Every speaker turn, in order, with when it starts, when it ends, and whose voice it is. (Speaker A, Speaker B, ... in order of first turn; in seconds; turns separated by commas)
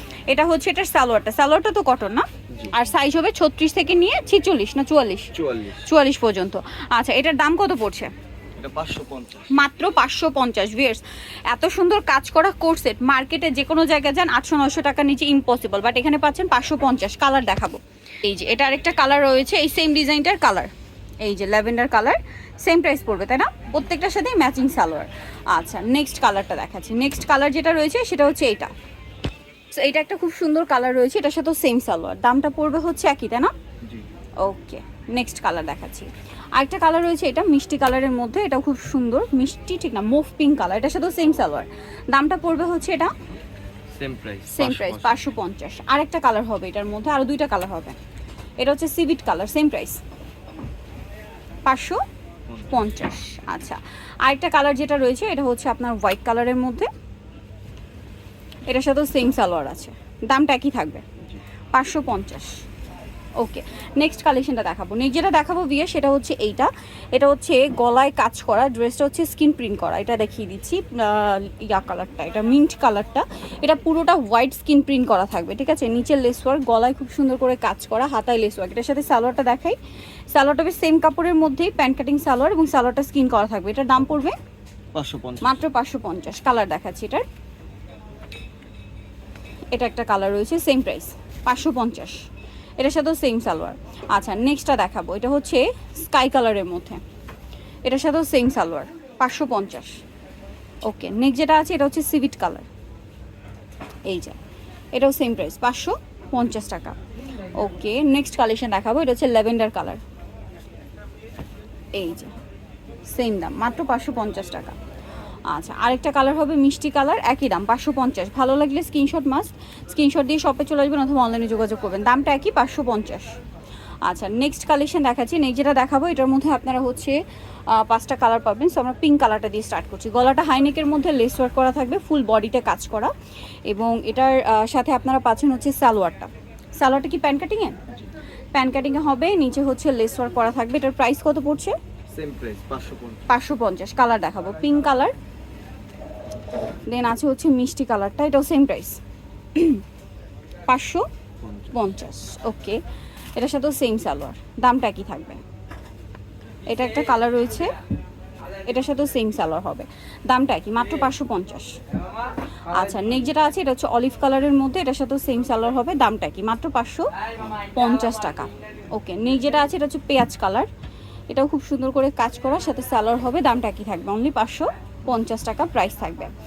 Speaker A: 0.3-5.3, Speaker B: 5.3-5.8, Speaker A: 5.8-8.1, Speaker B: 8.6-9.5, Speaker A: 9.5-20.7, Speaker A: 21.2-28.7, Speaker A: 29.7-33.5, Speaker A: 34.4-43.1, Speaker B: 44.0-45.2, Speaker A: 44.5-48.0, Speaker A: 48.6-50.0, Speaker A: 51.6-52.0, Speaker A: 52.7-56.9, Speaker A: 58.7-61.0, Speaker A: 61.7-62.6, Speaker A: 63.4-79.8, Speaker A: 80.3-84.3, Speaker B: 84.9-85.5, Speaker A: 85.4-87.2, Speaker A: 89.7-92.2, Speaker A: 92.8-97.0, Speaker A: 97.8-100.0, Speaker A: 100.8-102.7, Speaker A: 104.0-104.4, Speaker A: 104.9-107.0, Speaker A: 107.6-110.0, Speaker A: 112.0-112.3, Speaker A: 113.1-114.8, Speaker A: 115.5-123.3, Speaker A: 124.0-127.2, Speaker A: 127.7-133.1, Speaker A: 133.7-137.8, Speaker A: 138.5-141.8, Speaker B: 142.1-143.2, Speaker A: 143.3-145.1, Speaker A: 146.9-149.0, Speaker A: 149.5-149.8, Speaker A: 150.7-151.1, Speaker A: 151.7-152.8, Speaker A: 153.3-155.4, Speaker A: 156.7-157.7, Speaker A: 158.6-161.8, Speaker A: 162.7-170.7, Speaker A: 171.3-176.3